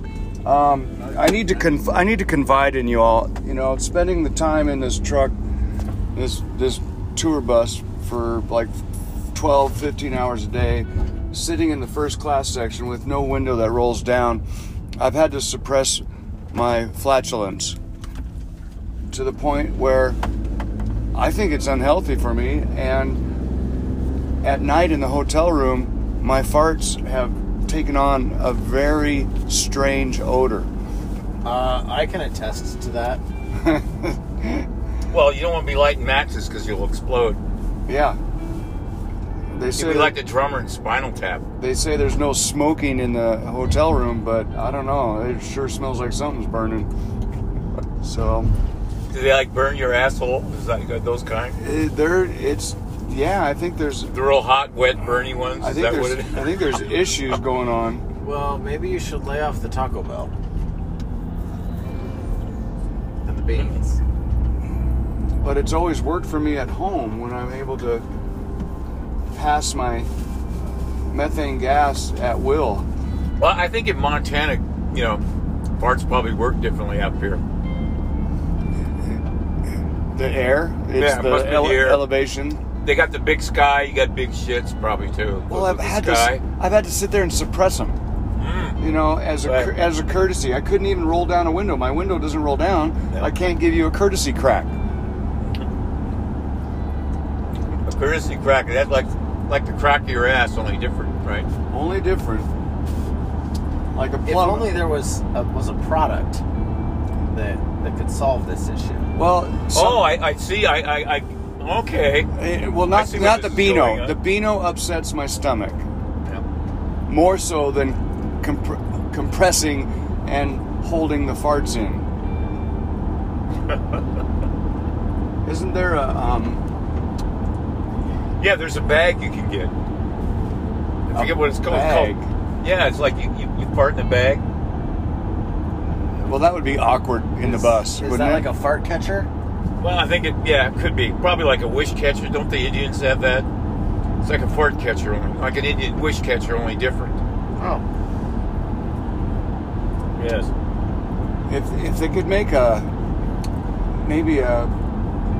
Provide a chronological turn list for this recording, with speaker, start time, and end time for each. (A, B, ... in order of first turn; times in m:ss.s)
0:00.4-0:05.3 A
0:06.1-0:08.8 A
0:09.3-0:14.4 A
0:15.0-0:17.8 A
0:19.1-0:20.2 A
0:21.1-0:23.2 A
0:24.4-0:30.7 A
0:31.4-0:33.2 B
0:33.5-0:34.6 A
0:35.1-0:37.4 C
0:37.9-0:38.2 A
0:39.5-0:40.2 A
0:39.8-0:41.4 C
0:41.6-0:46.9 A
0:48.0-0:48.6 A
0:49.1-0:51.6 C
0:51.6-0:54.1 A
0:54.1-0:56.8 C
0:55.6-0:58.0 A
0:58.2-1:00.3 B
1:03.2-1:04.0 B
1:05.4-1:08.0 A
1:09.3-1:10.1 A
1:11.1-1:12.9 A
1:13.4-1:15.2 C
1:15.8-1:17.4 C
1:20.1-1:22.6 A
1:20.9-1:22.0 C
1:22.8-1:26.4 C
1:25.5-1:28.0 A
1:28.4-1:28.8 C
1:28.8-1:34.7 A
1:29.4-1:29.7 C
1:37.8-1:41.5 C
1:41.7-1:42.5 A
1:43.9-1:44.8 A
1:44.2-1:46.4 B
1:47.3-1:49.1 B
1:49.1-1:50.1 A
1:49.7-1:52.3 C
1:52.3-1:55.9 A
1:52.9-1:54.2 C
1:57.1-2:02.0 A
2:03.7-2:04.0 C
2:05.4-2:06.6 A
2:08.4-2:09.7 C
2:11.1-2:12.3 A
2:11.1-2:14.4 C
2:16.1-2:18.5 A
2:17.4-2:19.3 B
2:19.8-2:23.5 C
2:24.2-2:27.2 C
2:27.6-2:27.8 B
2:30.1-2:30.5 C
2:31.5-2:32.9 A
2:34.0-2:34.7 A